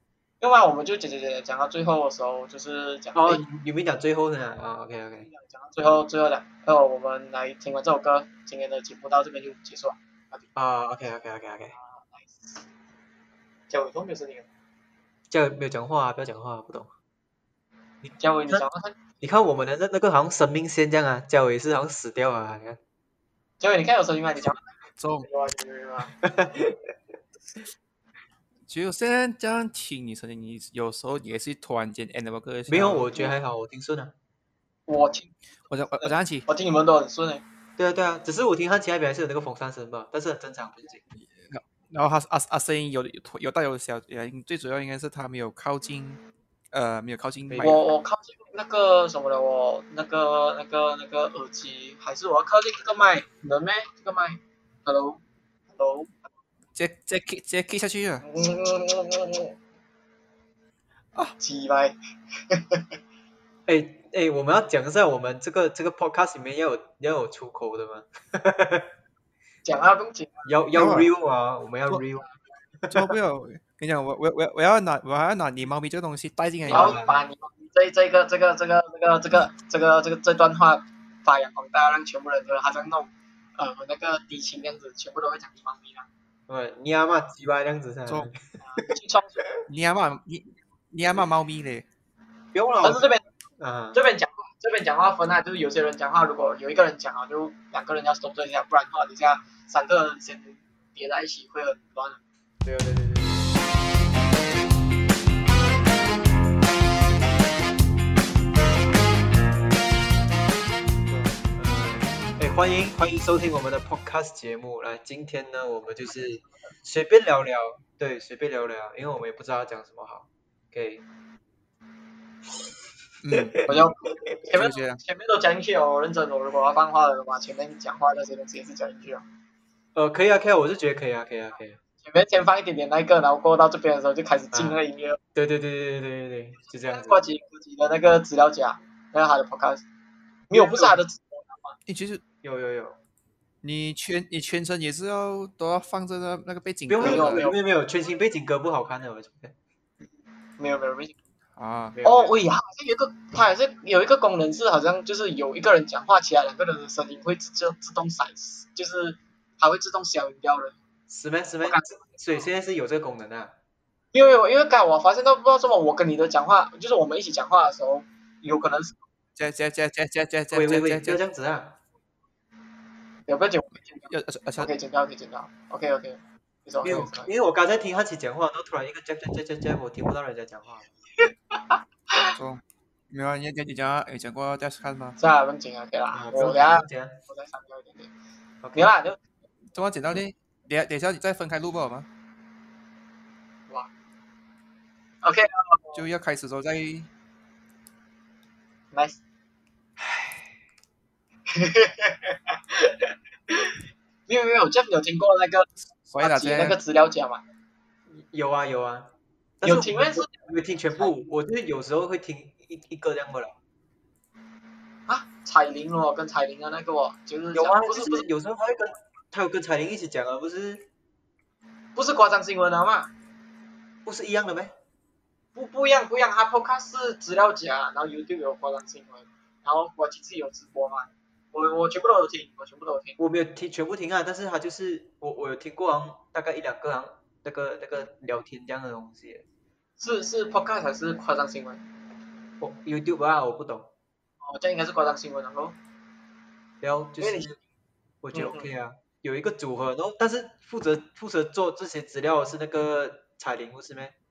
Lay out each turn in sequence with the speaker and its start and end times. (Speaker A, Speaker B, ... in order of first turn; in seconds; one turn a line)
Speaker A: 0.4-3.4
Speaker B: 3.1-5.3
Speaker A: 5.3-10.4
Speaker B: 10.5-11.8
Speaker A: 11.8-12.6
Speaker A: 13.7-14.5
Speaker B: 15.3-16.9
Speaker B: 18.0-18.6
Speaker A: 18.2-19.0
Speaker B: 19.2-22.8
Speaker A: 23.6-24.6
Speaker C: 25.0-25.3
Speaker A: 25.2-26.1
Speaker B: 26.2-26.8
Speaker C: 28.7-33.3
Speaker B: 32.7-34.1
Speaker A: 34.9-35.3
Speaker C: 35.7-36.5
Speaker A: 36.0-37.4
Speaker B: 37.8-41.0
Speaker C: 41.1-46.2
Speaker C: 46.7-47.8
Speaker B: 47.5-47.8
Speaker A: 47.6-55.2
Speaker A: 55.7-56.3
Speaker C: 56.7-58.2
Speaker A: 58.2-59.5
Speaker A: 61.4-62.0
Speaker A: 62.5-62.8
Speaker B: 63.6-68.9
Speaker A: 69.6-70.5
Speaker B: 70.5-72.3
Speaker C: 70.7-71.1
Speaker B: 72.8-73.1
Speaker C: 72.9-77.0
Speaker B: 76.7-77.2
Speaker A: 76.7-86.1
Speaker B: 86.5-88.5
Speaker C: 88.1-88.3
Speaker A: 88.6-89.5
Speaker C: 89.7-91.8
Speaker B: 92.5-93.1
Speaker A: 92.8-93.2
Speaker B: 93.6-94.0
Speaker A: 93.9-102.2
Speaker B: 102.6-103.5
Speaker B: 111.1-121.0
Speaker C: 123.2-123.6
Speaker A: 123.7-129.2
Speaker C: 124.5-125.0
Speaker B: 129.9-131.8
Speaker A: 132.0-135.2
Speaker B: 134.5-134.8
Speaker B: 135.3-137.2
Speaker A: 136.6-139.8
Speaker A: 140.5-141.8
Speaker B: 140.5-141.0
Speaker C: 141.9-142.2
Speaker B: 142.4-143.0
Speaker C: 143.6-147.4
Speaker B: 146.9-149.5
Speaker A: 147.0-147.6
Speaker A: 150.6-151.1
Speaker C: 151.6-152.0
Speaker B: 151.9-152.3
Speaker A: 152.0-160.8
Speaker B: 161.1-163.5
Speaker A: 161.6-162.4
Speaker A: 164.1-169.0
Speaker C: 169.3-171.2
Speaker B: 170.5-171.8
Speaker A: 173.3-177.3
Speaker C: 174.1-174.7
Speaker B: 176.8-180.9
Speaker A: 181.2-182.3
Speaker C: 182.3-185.2
Speaker A: 185.2-188.1
Speaker B: 186.1-187.2
Speaker B: 188.6-188.9
Speaker A: 188.7-189.2
Speaker C: 189.7-192.1
Speaker A: 195.2-196.0
Speaker C: 195.9-197.1
Speaker A: 198.9-199.2
Speaker A: 201.5-205.7
Speaker C: 206.1-206.8
Speaker A: 206.2-207.4
Speaker B: 208.1-213.6
Speaker A: 209.6-210.3
Speaker A: 215.1-218.3
Speaker B: 217.5-220.8
Speaker A: 221.9-223.1
Speaker B: 224.0-224.7
Speaker A: 225.5-233.2
Speaker B: 233.2-239.4
Speaker A: 240.0-241.8
Speaker B: 242.6-243.9
Speaker A: 244.4-245.8
Speaker B: 246.8-247.6
Speaker A: 247.2-247.5
Speaker B: 248.2-254.1
Speaker A: 248.3-248.7